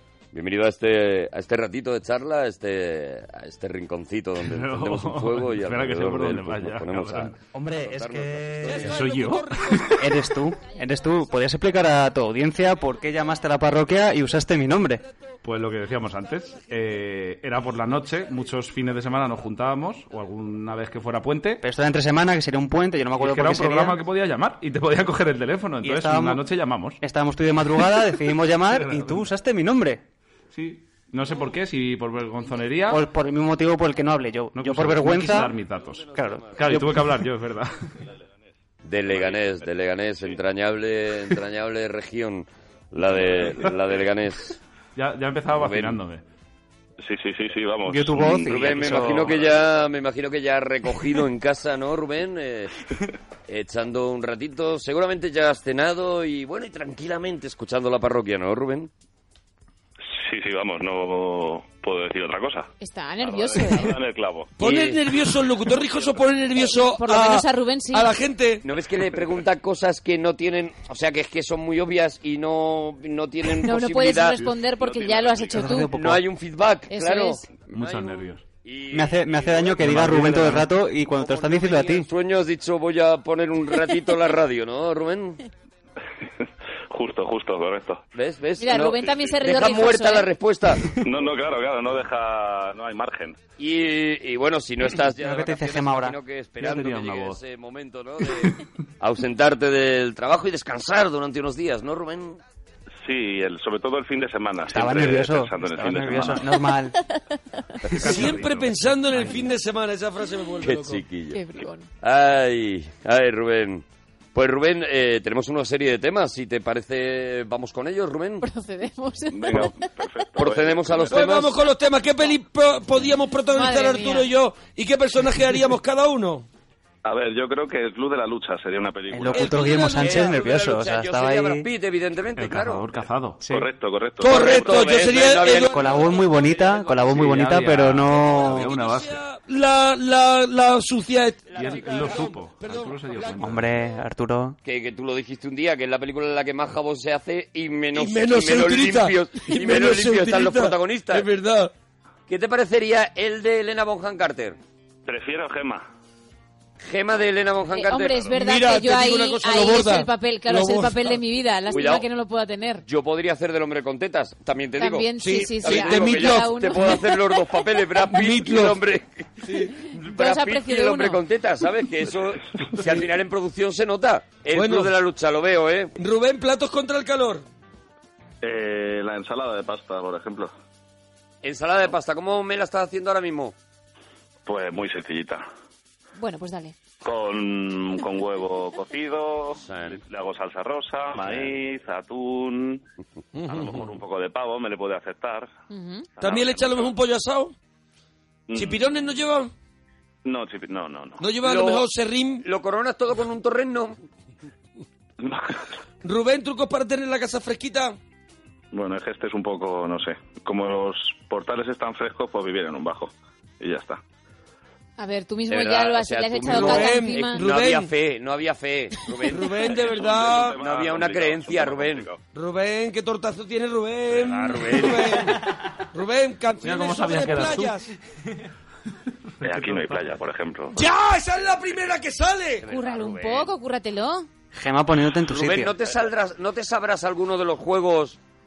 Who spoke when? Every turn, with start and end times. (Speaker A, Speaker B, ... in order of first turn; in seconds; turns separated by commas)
Speaker A: 0.3-9.1, Speaker B: 4.4-7.3, Speaker C: 7.5-9.0, Speaker D: 8.7-10.3, Speaker B: 8.8-10.2, Speaker C: 9.9-15.0, Speaker B: 15.4-21.6, Speaker C: 21.6-24.0, Speaker B: 23.1-27.0, Speaker C: 25.8-26.5, Speaker C: 27.0-30.0, Speaker B: 27.8-28.1, Speaker B: 28.7-29.3, Speaker B: 30.5-33.1, Speaker C: 32.9-35.5, Speaker B: 34.5-37.9, Speaker A: 35.8-36.8, Speaker C: 36.1-37.1, Speaker A: 38.8-44.6, Speaker E: 39.1-39.6, Speaker B: 44.9-46.2, Speaker A: 45.5-46.0, Speaker E: 47.0-49.6, Speaker C: 47.8-49.4, Speaker A: 48.3-52.8, Speaker A: 53.5-58.9, Speaker E: 60.1-62.7, Speaker F: 62.8-64.0, Speaker E: 63.2-64.5, Speaker D: 64.6-68.6, Speaker A: 64.6-65.0, Speaker F: 66.8-68.1, Speaker A: 68.6-74.5, Speaker F: 73.5-75.9, Speaker E: 74.8-75.8, Speaker C: 75.5-76.2, Speaker A: 75.8-85.4, Speaker F: 76.9-77.5, Speaker B: 77.7-78.4, Speaker C: 78.9-82.1, Speaker B: 79.8-80.7, Speaker E: 86.9-88.0, Speaker A: 88.1-91.0, Speaker F: 88.6-90.3, Speaker E: 91.0-93.4, Speaker A: 93.6-102.4, Speaker C: 95.1-96.2, Speaker B: 96.6-97.4, Speaker E: 103.0-106.7, Speaker C: 104.7-107.0, Speaker A: 107.8-108.5, Speaker B: 107.9-109.2, Speaker D: 108.0-111.0, Speaker A: 109.1-109.5, Speaker A: 110.6-111.4, Speaker F: 111.3-111.9, Speaker A: 112.0-118.5, Speaker F: 118.4-120.1, Speaker E: 119.3-121.3, Speaker A: 120.4-121.6, Speaker D: 121.1-126.5, Speaker F: 123.5-124.3, Speaker E: 127.0-129.8, Speaker C: 129.1-131.7, Speaker D: 129.3-130.3, Speaker A: 129.7-132.9, Speaker B: 132.3-133.4, Speaker C: 133.4-133.7, Speaker E: 133.5-135.2, Speaker D: 134.2-136.8, Speaker A: 134.3-136.6, Speaker C: 135.6-138.7, Speaker B: 137.0-139.2, Speaker D: 138.1-143.6, Speaker B: 141.5-143.8, Speaker A: 141.5-142.2, Speaker C: 143.4-144.6, Speaker A: 144.6-151.3, Speaker D: 147.9-151.7, Speaker A: 152.3-154.6, Speaker E: 155.1-155.9, Speaker A: 156.8-158.4, Speaker F: 157.7-162.8, Speaker D: 158.3-161.2, Speaker A: 161.7-162.1, Speaker A: 162.8-175.9, Speaker F: 164.8-167.6, Speaker D: 165.2-166.8, Speaker D: 168.1-168.8, Speaker D: 169.4-169.7, Speaker F: 169.8-171.2, Speaker D: 174.5-174.9, Speaker D: 176.0-177.4, Speaker E: 178.4-180.5, Speaker A: 181.4-183.5, Speaker E: 184.4-185.4, Speaker F: 186.2-186.8, Speaker E: 187.0-192.8, Speaker A: 189.6-190.0, Speaker A: 191.2-191.6, Speaker E: 193.4-195.5, Speaker A: 193.5-193.9, Speaker F: 195.7-196.1, Speaker E: 196.2-196.9, Speaker D: 196.2-197.5, Speaker A: 196.2-196.5, Speaker E: 198.5-198.9, Speaker D: 198.5-199.5, Speaker E: 200.2-201.2, Speaker D: 201.2-202.4, Speaker A: 201.4-201.9, Speaker A: 202.4-204.0, Speaker E: 205.2-205.6, Speaker D: 206.0-207.9, Speaker E: 208.7-214.0, Speaker F: 215.0-217.4, Speaker A: 215.5-219.5, Speaker D: 216.5-217.9, Speaker D: 219.3-220.6, Speaker E: 219.7-222.2, Speaker A: 220.5-222.1, Speaker D: 222.3-227.9, Speaker A: 224.1-225.2, Speaker B: 226.6-227.7, Speaker B: 229.4-230.1, Speaker E: 229.4-230.8, Speaker D: 230.7-232.7, Speaker A: 232.6-233.5, Speaker F: 232.7-234.3, Speaker C: 234.5-235.7, Speaker A: 235.2-238.2